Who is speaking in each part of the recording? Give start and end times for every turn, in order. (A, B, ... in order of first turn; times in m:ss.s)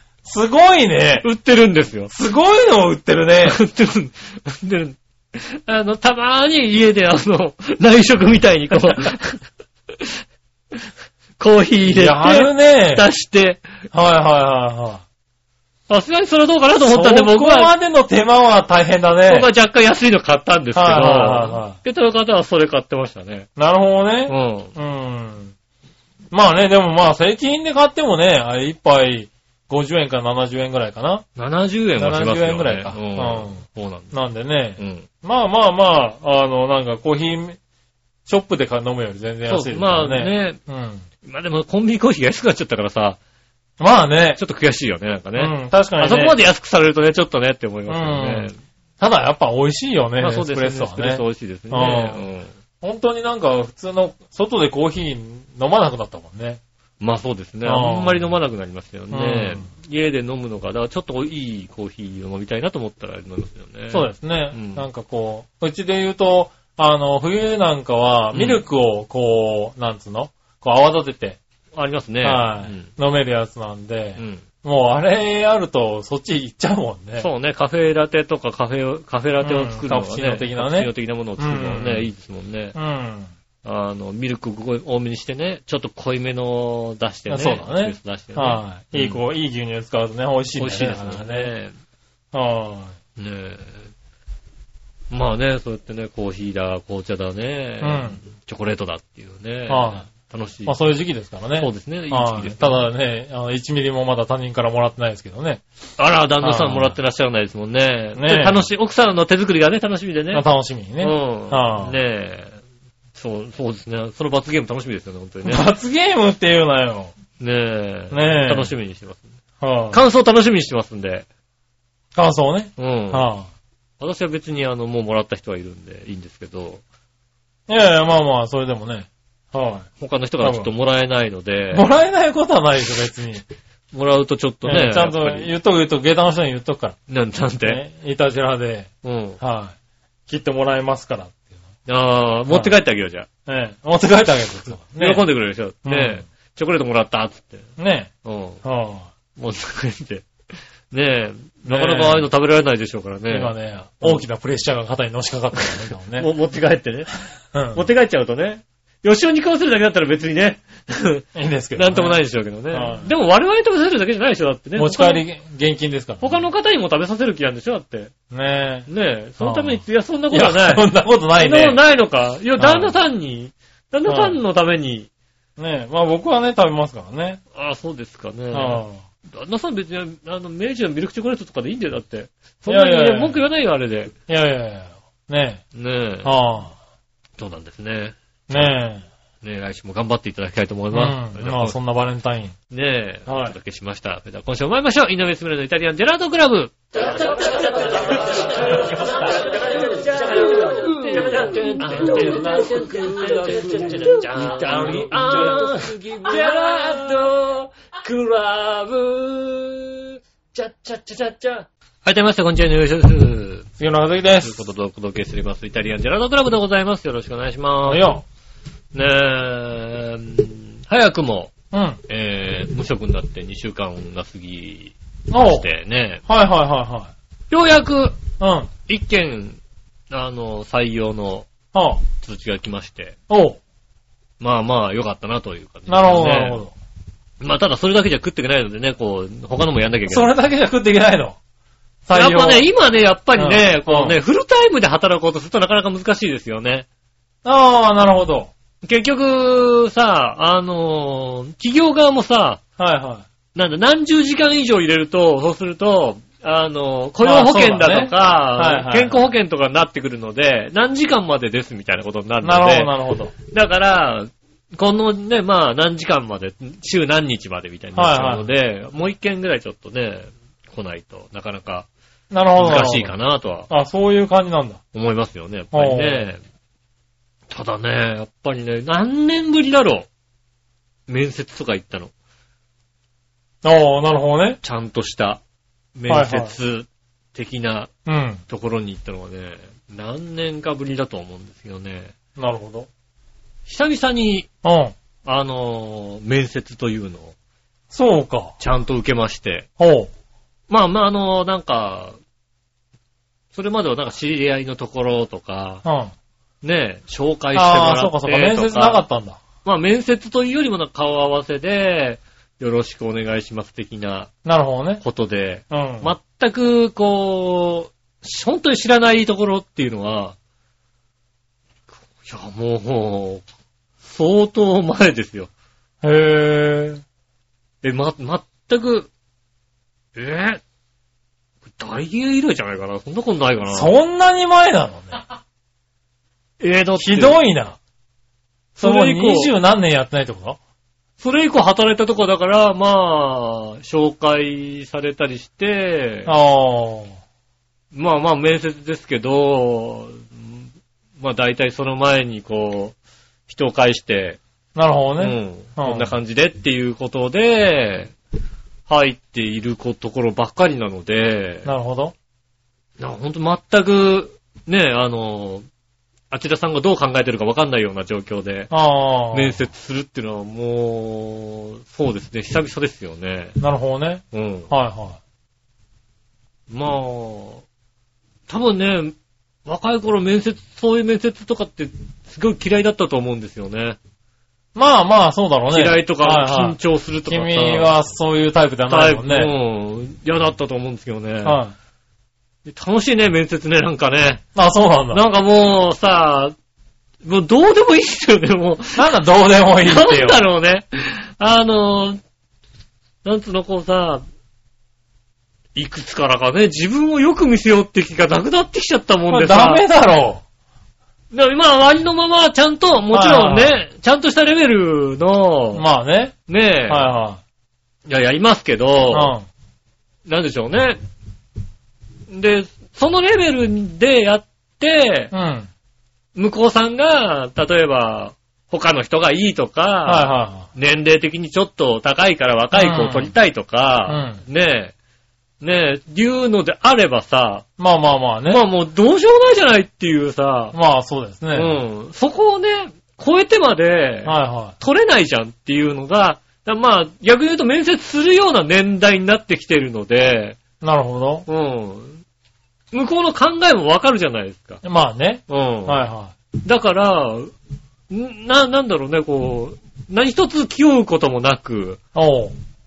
0:00.2-0:01.3 A
0:01.2-0:02.1 B
0:02.1-0:03.6 A
0:03.4-0:09.4 B
0:11.4-0:13.6 B
0:11.9-0:13.0 A
0:13.9-0:15.0 A
0:15.9-0:17.7 B
0:16.8-0:19.5 A
0:19.3-0:23.5 B
0:20.8-0:21.8 A
0:23.6-0:25.5 A
0:24.3-0:24.7 B
0:26.3-0:31.2 A
0:31.4-0:34.1 B
0:32.0-0:33.6 A
0:34.1-0:37.6 A
0:34.8-0:35.1 B
0:38.3-0:41.0 A
0:39.5-0:40.6 B
0:41.2-0:43.2 B
0:43.8-0:44.4 A
0:44.4-0:48.6 B
0:45.4-0:46.4 A
0:47.9-0:52.3 A
0:50.2-0:52.5 B
0:52.8-0:56.6 A
0:57.0-1:04.8 B
0:57.6-0:58.3 A
0:59.1-0:59.7 A
1:03.9-1:11.4 A
1:08.3-1:08.6 B
1:11.7-1:12.9 B
1:12.2-1:17.3 A
1:14.2-1:14.4 B
1:17.2-1:22.8 B
1:19.4-1:22.1 A
1:22.8-1:23.3 A
1:23.6-1:29.2 B
1:27.3-1:31.5 A
1:30.6-1:31.7 B
1:32.3-1:33.0 A
1:33.2-1:33.9 B
1:35.1-1:40.8 B
1:37.8-1:38.2 A
1:39.7-1:40.1 A
1:40.7-1:45.6 A
1:41.6-1:42.8 B
1:46.0-1:50.5 B
1:46.4-1:47.0 A
1:48.2-1:48.7 A
1:50.3-1:52.0 A
1:51.0-1:52.6 B
1:53.2-1:55.7 B
1:55.4-1:57.1 A
1:57.4-1:59.3 B
1:58.1-1:58.7 A
1:59.6-2:00.0 A
1:59.9-2:01.3 B
2:02.2-2:03.5 A
2:02.8-2:03.3 B
2:04.0-2:06.8 B
2:07.7-2:09.9 A
2:10.0-2:11.9 B
2:10.4-2:10.7 A
2:11.7-2:13.4 A
2:13.9-2:15.5 B
2:14.6-2:17.0 A
2:17.1-2:17.8 B
2:17.6-2:18.9 A
2:19.0-2:19.4 B
2:19.4-2:19.7 A
2:20.3-2:21.5 A
2:21.9-2:23.3 B
2:22.5-2:22.8 A
2:23.5-2:25.2 A
2:25.0-2:27.7 B
2:25.8-2:26.2 A
2:27.8-2:28.1 A
2:28.2-2:28.6 B
2:28.6-2:29.1 A
2:29.4-2:30.3 B
2:30.9-2:34.2 B
2:31.6-2:32.3 A
2:33.3-2:36.3 A
2:35.6-2:37.1 B
2:37.5-2:37.8 A
2:37.7-2:45.2 B
2:41.4-2:42.2 A
2:42.7-2:43.1 A
2:44.8-2:46.4 A
2:46.2-2:48.1 B
2:48.3-2:48.9 A
2:48.9-2:55.1 B
2:49.4-2:51.8 A
2:52.6-2:52.9 A
2:54.1-2:54.4 A
2:55.6-2:57.4 A
2:57.6-3:04.1 B
2:58.5-2:59.0 A
3:02.7-3:03.4 A
3:04.3-3:05.6 A
3:05.7-3:06.4 B
3:06.2-3:06.7 A
3:07.4-3:08.8 B
3:08.5-3:09.0 A
3:09.4-3:11.8 B
3:10.9-3:12.6 A
3:12.7-3:33.7 B
3:13.3-3:13.6 A
3:18.8-3:19.2 A
3:22.0-3:22.5 A
3:24.6-3:25.8 A
3:33.8-3:34.6 A
3:34.4-3:38.1 B
3:37.9-3:38.2 A
3:38.9-3:41.5 B
3:41.7-3:42.0 A
3:42.1-3:46.2 B
3:45.3-3:45.7 A
3:46.3-3:47.1 A
3:47.5-3:48.2 B
3:48.4-3:48.7 A
3:48.9-3:49.6 B
3:50.1-3:51.5 B
3:51.7-3:52.0 A
3:52.2-3:53.2 B
3:53.3-3:53.6 A
3:54.4-3:56.6 B
3:55.9-3:56.7 A
3:57.4-4:00.3 B
4:00.1-4:01.4 A
4:02.0-4:02.7 A
4:02.1-4:06.9 B
4:03.4-4:04.2 A
4:07.4-4:08.5 A
4:08.8-4:12.6 B
4:12.8-4:13.3 A
4:13.6-4:22.9 B
4:17.2-4:19.2 A
4:22.4-4:23.3 A
4:23.5-4:31.9 B
4:28.0-4:28.5 A
4:32.3-4:33.1 A
4:32.6-4:33.7 B
4:33.7-4:34.8 A
4:34.9-4:36.4 B
4:35.7-4:36.3 A
4:37.5-4:40.1 B
4:41.1-4:42.1 B
4:43.6-4:44.6 A
4:44.6-4:45.4 B
4:46.0-4:47.9 B
4:46.1-4:46.5 A
4:48.1-4:48.4 A
4:48.5-4:52.1 B
4:52.4-4:52.9 A
4:53.7-4:54.5 B
4:54.6-4:54.9 A
4:55.2-4:57.4 B
4:57.9-4:58.6 A
4:58.6-4:59.7 B
4:59.8-5:00.1 A
5:00.7-5:02.2 B
5:03.5-5:05.8 B
5:05.8-5:06.1 A
5:06.6-5:09.0 B
5:07.5-5:09.4 A
5:09.6-5:14.3 B
5:14.4-5:15.0 A
5:15.0-5:20.4 B
5:15.7-5:16.1 A
5:22.2-5:23.4 B
5:24.0-5:25.5 B
5:26.0-5:27.0 A
5:27.8-5:29.1 B
5:30.2-5:30.6 B
5:31.8-5:33.9 B
5:33.7-5:35.2 A
5:36.6-5:37.4 B
5:37.0-5:37.8 A
5:38.8-5:39.5 B
5:38.8-5:40.6 A
5:41.2-5:46.3 B
5:46.3-5:47.2 A
5:47.9-5:50.6 B
5:51.2-5:53.0 B
5:53.5-5:54.4 B
5:54.8-5:56.2 A
5:55.2-5:58.1 B
5:58.9-6:01.7 B
6:01.6-6:02.1 A
6:03.0-6:05.7 B
6:06.3-6:08.7 B
6:08.7-6:09.6 A
6:09.3-6:13.6 B
6:13.6-6:15.2 A
6:14.3-6:14.7 B
6:16.7-6:17.6 B
6:18.5-6:19.2 B
6:19.7-6:24.0 B
6:24.8-6:29.5 A
6:25.7-6:27.9 B
6:28.9-6:31.6 B
6:31.4-6:31.7 A
6:32.7-6:34.4 B
6:34.6-6:35.2 A
6:35.1-6:36.6 B
6:37.2-6:39.2 B
6:39.0-6:40.4 A
6:39.8-6:42.2 B
6:43.2-6:44.2 B
6:45.8-6:49.8 B
6:49.3-6:50.4 A
6:51.3-6:55.8 B
6:53.1-6:53.8 A
6:55.7-6:56.4 A
6:56.5-6:57.1 B
6:56.9-6:57.4 A
6:58.1-6:59.3 B
6:59.1-6:59.5 A
7:00.3-7:01.0 B
7:02.3-7:05.3 B
7:05.3-7:05.7 A
7:06.4-7:14.9 B
7:10.1-7:10.7 A
7:12.7-7:13.3 A
7:14.1-7:14.4 A
7:15.6-7:17.7 B
7:17.8-7:18.6 A
7:18.5-7:20.8 B
7:20.7-7:21.8 A
7:21.5-7:30.6 B
7:24.2-7:24.8 A
7:30.8-7:31.5 A
7:31.5-7:32.2 B
7:32.9-7:34.8 B
7:34.8-7:36.3 A
7:35.5-7:36.0 B
7:36.6-7:37.5 B
7:38.1-7:42.0 B
7:42.1-7:42.6 A